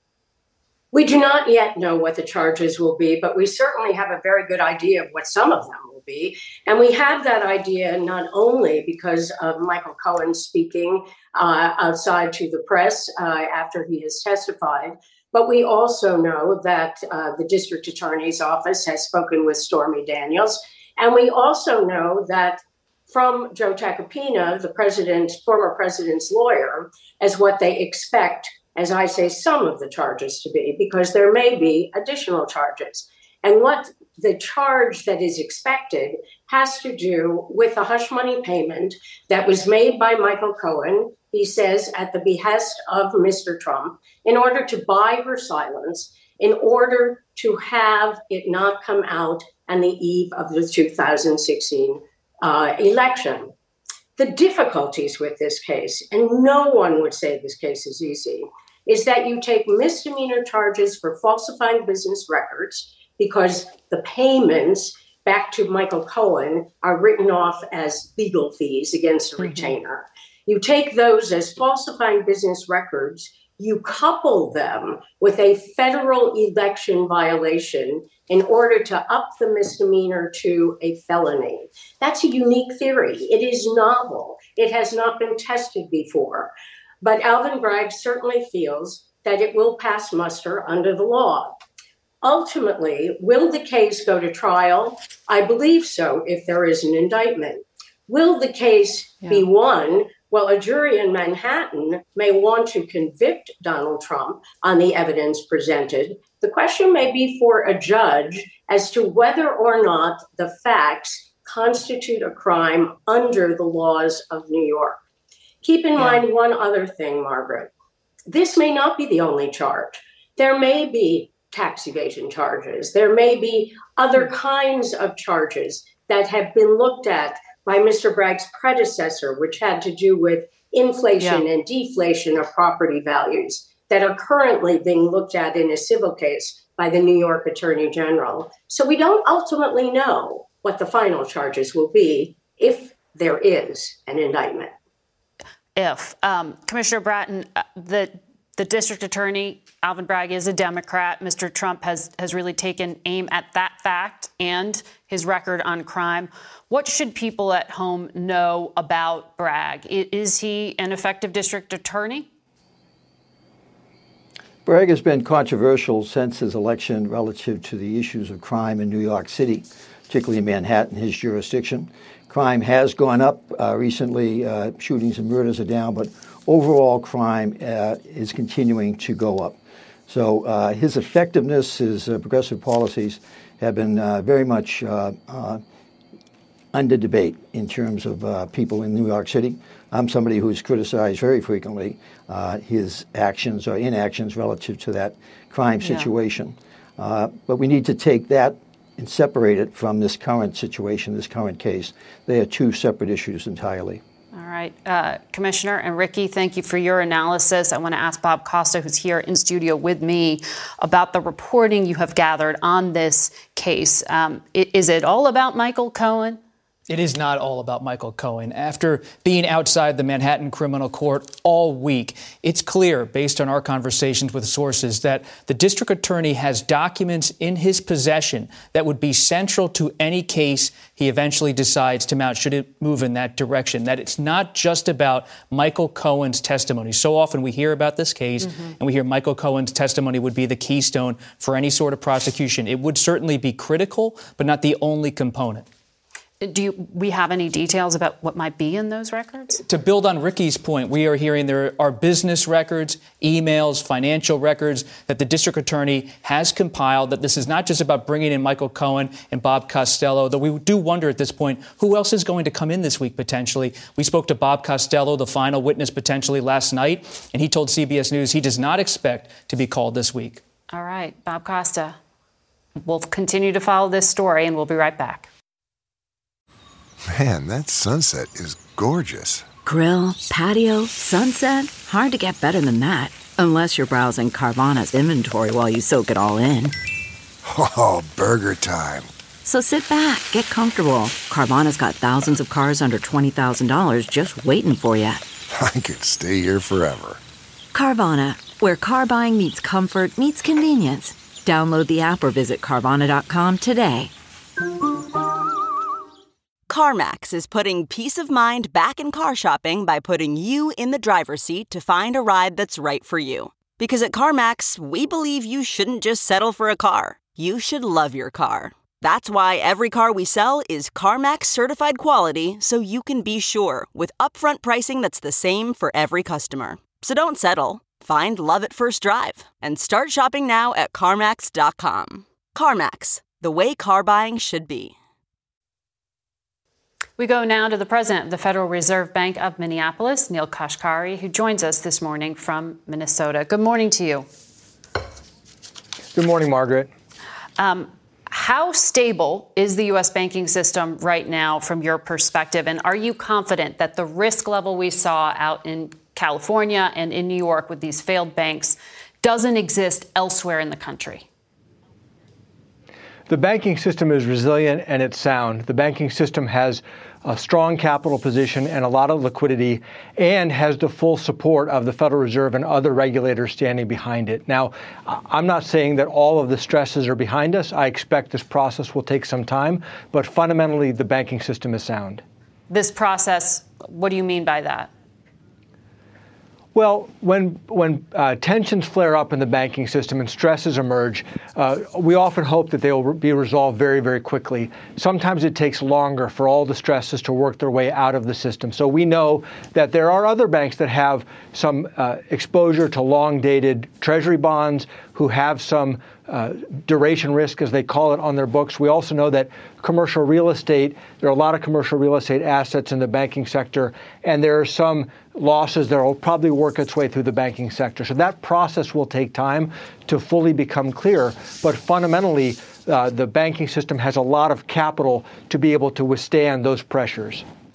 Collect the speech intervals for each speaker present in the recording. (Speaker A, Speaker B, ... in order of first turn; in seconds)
Speaker A: 0.9-53.5, 54.2-91.6, 92.2-115.0, 115.6-117.7, 118.3-144.7
Speaker B: 69.4-69.7, 131.2-131.4, 145.8-162.3, 195.8-196.1, 204.3-216.4, 238.4-238.7, 246.4-249.6, 270.7-272.0, 272.9-275.3, 337.2-344.2, 347.6-361.3, 382.7-384.9
Speaker C: 164.7-185.6, 186.7-204.0
Speaker D: 216.9-245.7, 249.7-270.4
Speaker E: 277.1-279.4, 287.4-289.1, 295.5-297.2
Speaker F: 279.6-286.7, 289.4-295.3, 297.7-304.1
Speaker G: 306.7-334.9
Speaker H: 346.1-346.9, 363.3-382.2, 386.7-427.4